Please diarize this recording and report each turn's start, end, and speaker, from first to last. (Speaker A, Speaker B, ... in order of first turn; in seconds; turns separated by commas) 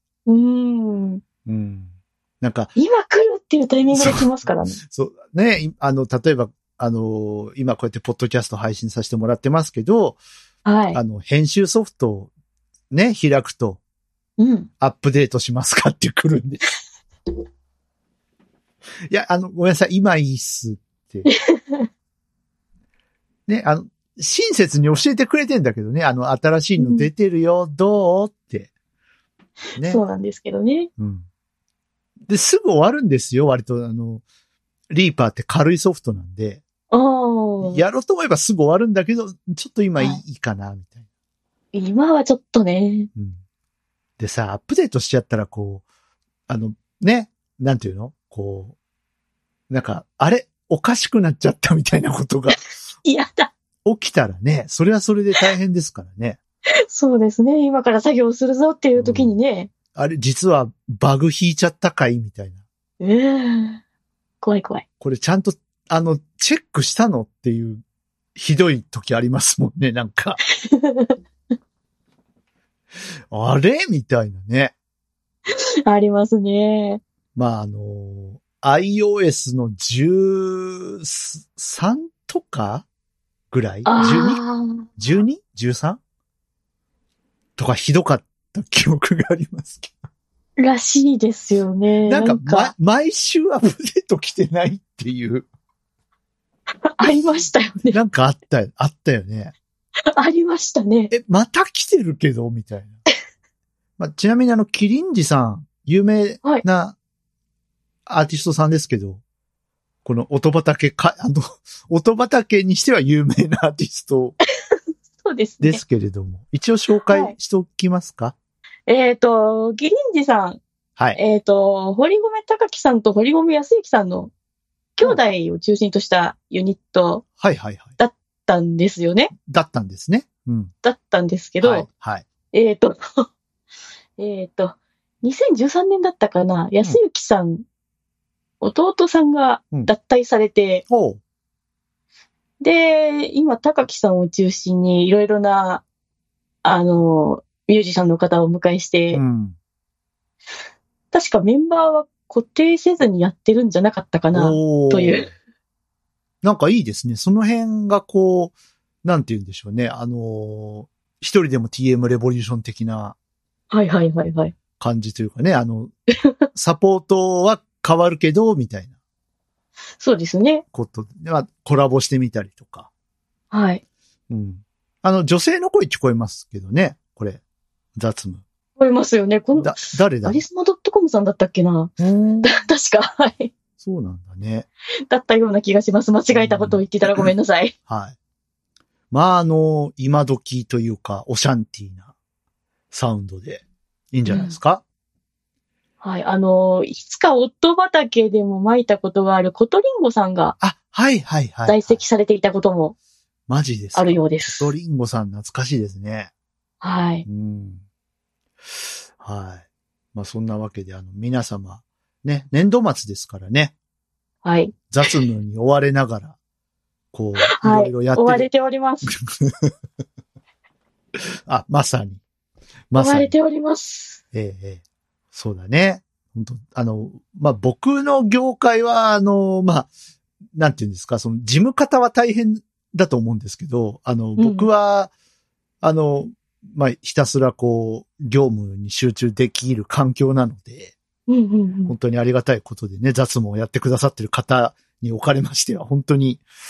Speaker A: 0.2-1.2, Speaker B: 1.4-2.7, Speaker A: 2.8-4.8, Speaker B: 3.9-4.3, Speaker B: 4.8-10.2, Speaker A: 10.6-11.0, Speaker B: 10.9-12.3, Speaker B: 12.9-13.8, Speaker A: 14.4-14.7, Speaker B: 14.8-16.6, Speaker B: 19.1-21.3, Speaker A: 21.2-21.9, Speaker B: 23.5-28.7, Speaker A: 26.8-27.1, Speaker B: 29.8-30.0, Speaker A: 29.8-30.9, Speaker B: 31.0-31.2, Speaker B: 32.3-34.2, Speaker B: 34.9-36.6, Speaker A: 36.9-37.8, Speaker B: 37.6-41.0, Speaker A: 41.7-43.1, Speaker B: 44.2-45.8, Speaker B: 46.5-48.7, Speaker B: 49.7-52.6, Speaker A: 53.0-53.5, Speaker B: 53.8-56.4, Speaker A: 56.9-59.7, Speaker B: 58.9-59.4, Speaker B: 59.9-62.6, Speaker A: 63.0-63.8, Speaker A: 64.4-64.8, Speaker B: 65.0-67.8, Speaker B: 68.3-70.4, Speaker A: 70.6-71.1, Speaker B: 73.3-74.7, Speaker A: 75.8-77.0, Speaker B: 77.3-82.8, Speaker B: 83.5-84.4, Speaker A: 83.8-84.8, Speaker B: 85.0-86.0, Speaker B: 87.6-89.9, Speaker A: 90.6-92.7, Speaker B: 92.1-95.5, Speaker A: 97.0-98.0, Speaker B: 97.9-99.5, Speaker A: 100.1-101.1, Speaker B: 101.1-103.0, Speaker B: 104.0-107.0, Speaker B: 108.1-109.2, Speaker B: 110.0-114.4, Speaker A: 115.2-115.8, Speaker B: 115.6-118.3, Speaker A: 117.1-117.3, Speaker A: 118.9-120.6, Speaker A: 121.1-124.3, Speaker A: 125.0-127.2, Speaker B: 127.4-127.9, Speaker A: 128.0-129.3, Speaker B: 129.4-130.7, Speaker A: 130.8-131.8, Speaker B: 131.6-132.2, Speaker A: 132.5-133.2, Speaker A: 134.2-137.6, Speaker A: 138.6-140.8, Speaker B: 140.9-141.2, Speaker A: 142.6-145.8, Speaker A: 146.6-149.2, Speaker B: 149.1-149.6, Speaker A: 151.1-155.3, Speaker B: 154.3-155.3, Speaker B: 156.4-163.2, Speaker A: 163.7-164.5, Speaker B: 164.8-165.9, Speaker B: 166.5-168.9, Speaker A: 170.0-170.6, Speaker B: 170.7-172.9, Speaker A: 173.5-173.8, Speaker B: 174.3-177.4, Speaker B: 177.9-178.4, Speaker A: 178.8-181.9, Speaker B: 179.5-180.4, Speaker B: 182.0-182.7, Speaker A: 182.4-183.5, Speaker B: 183.8-184.7, Speaker A: 185.1-187.7, Speaker B: 186.3-186.9, Speaker B: 187.9-188.2, Speaker B: 189.1-192.1, Speaker B: 192.9-194.8, Speaker A: 194.3-194.6, Speaker A: 196.0-200.6, Speaker B: 200.6-202.0, Speaker A: 201.7-202.9, Speaker B: 203.5-206.3, Speaker A: 203.9-204.7, Speaker A: 206.8-207.2, Speaker B: 207.2-207.8, Speaker B: 209.2-209.6, Speaker B: 210.1-213.7, Speaker A: 214.4-215.1, Speaker B: 214.9-216.3, Speaker B: 217.1-218.5, Speaker A: 217.4-219.1, Speaker B: 219.2-219.7, Speaker B: 221.5-222.2, Speaker B: 222.9-223.3, Speaker A: 222.9-224.2, Speaker B: 224.3-224.8, Speaker B: 225.3-229.9, Speaker B: 230.5-235.1, Speaker A: 234.4-234.7, Speaker B: 235.8-240.9, Speaker A: 241.3-241.9, Speaker B: 241.9-246.4